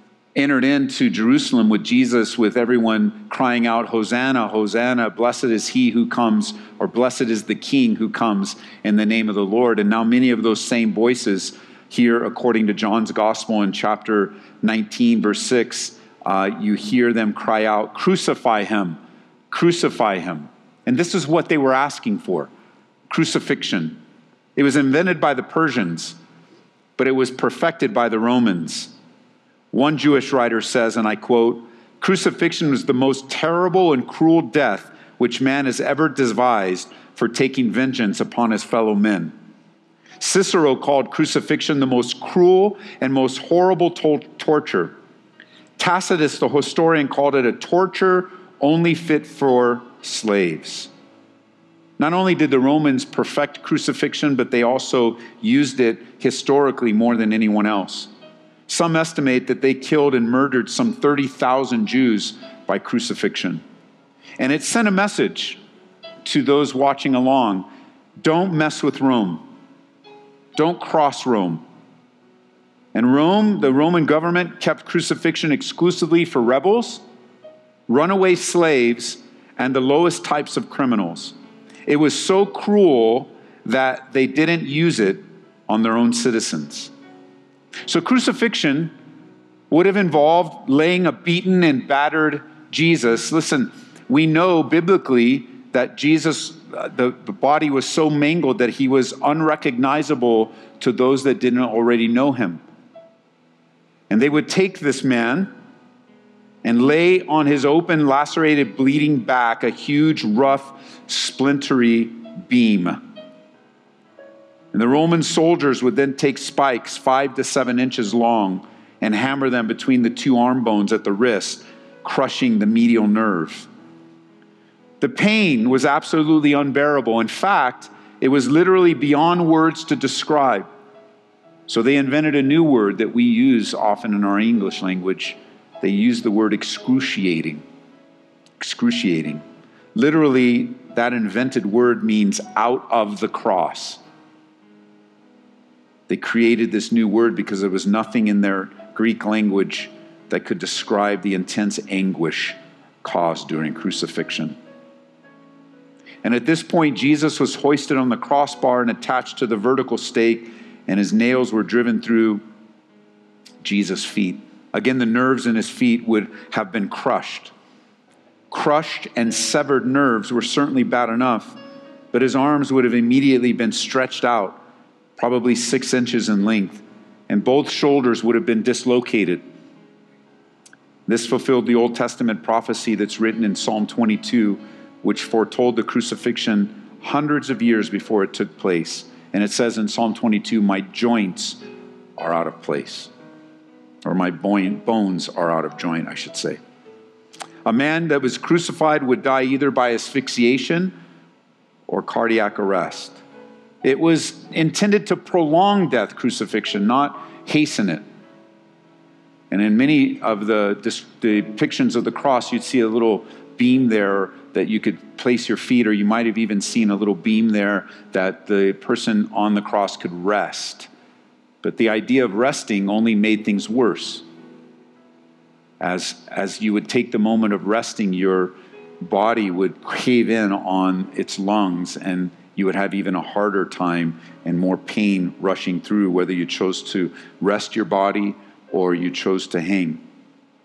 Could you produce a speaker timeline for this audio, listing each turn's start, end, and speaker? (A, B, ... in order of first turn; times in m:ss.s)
0:00.4-0:22.5 A
0:23.1-0:24.0 A
0:24.6-0:26.2 A
0:27.0-0:28.9 A
0:29.7-0:39.3 A
0:40.2-0:45.0 A
0:45.8-0:50.9 A
0:52.0-0:58.1 A
0:58.7-1:03.6 A
1:04.4-1:05.6 A
1:06.2-1:07.7 A
1:08.2-1:09.4 A
1:10.6-1:11.6 A
1:12.9-1:17.0 A
1:17.9-1:21.3 A
1:21.8-1:26.9 A
1:27.8-1:28.9 A
1:29.7-1:42.6 A
1:44.1-1:45.5 A
1:46.6-1:53.0 A
1:54.7-2:03.7 A
2:05.0-2:10.7 A
2:11.7-2:17.6 A
2:18.6-2:19.4 A
2:19.9-2:24.0 A
2:26.1-2:34.6 A
2:36.2-2:42.4 A
2:43.6-2:47.5 A
2:48.5-2:51.6 A
2:52.1-2:54.6 A
2:55.2-2:59.4 A
3:01.1-3:11.6 A
3:12.2-3:13.1 A
3:14.0-3:16.6 A
3:17.6-3:20.9 A
3:21.9-3:23.2 A
3:23.8-3:28.0 A
3:29.5-3:40.9 A
3:41.6-3:44.2 A
3:45.8-4:00.0 A